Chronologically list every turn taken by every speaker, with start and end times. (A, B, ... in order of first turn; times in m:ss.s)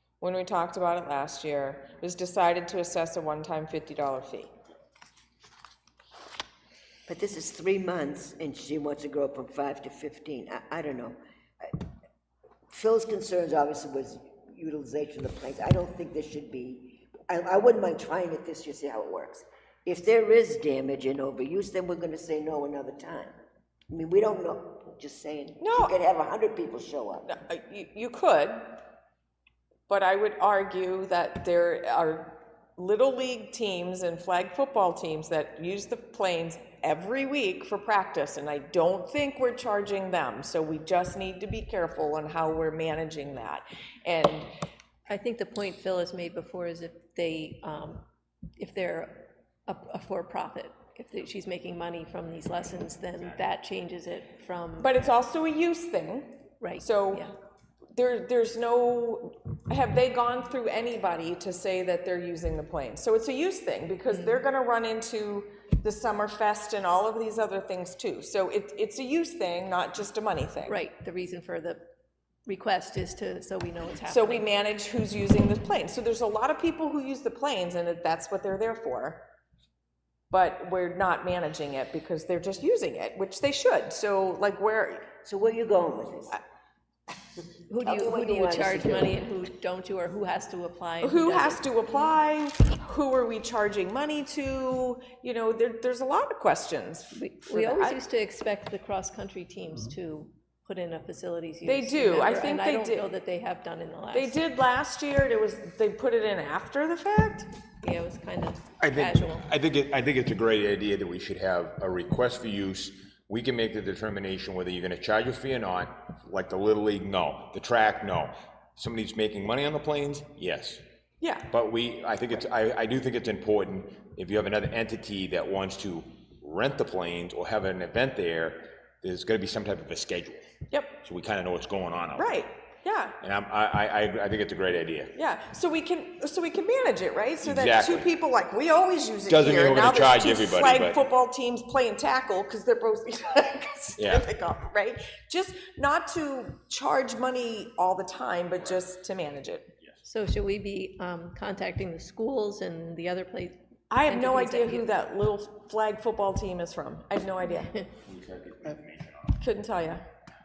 0:00.2-0:04.5 A
0:07.1-0:11.8 B
0:12.7-0:23.3 B
0:23.9-0:27.3 B
0:25.6-0:26.0 A
0:27.3-0:28.8 A
0:29.9-0:44.5 A
0:45.1-0:48.1 C
0:48.6-0:55.0 C
0:54.8-0:57.3 A
0:56.6-0:57.3 C
0:57.9-1:10.8 A
1:04.1-1:04.4 C
1:10.7-1:11.8 C
1:12.5-1:14.4 C
1:14.1-1:19.2 A
1:20.3-1:25.1 A
1:25.2-1:26.4 B
1:27.7-1:32.0 C
1:27.8-1:29.2 B
1:31.0-1:38.0 A
1:37.1-1:44.4 C
1:41.7-1:43.1 A
1:44.1-1:47.5 A
1:47.8-1:49.5 C
1:48.8-2:00.8 D
2:01.2-2:01.5 A
2:01.5-2:10.5 D
2:10.7-2:11.0 A
2:11.0-2:12.4 D
2:12.2-2:13.2 A
2:13.2-2:15.1 D
2:15.1-2:29.7 A
2:17.4-2:18.1 D
2:19.3-2:21.0 D
2:24.0-2:24.3 D
2:30.0-2:34.8 C
2:33.9-2:37.8 A
2:38.1-2:39.2 D
2:39.4-2:40.0 A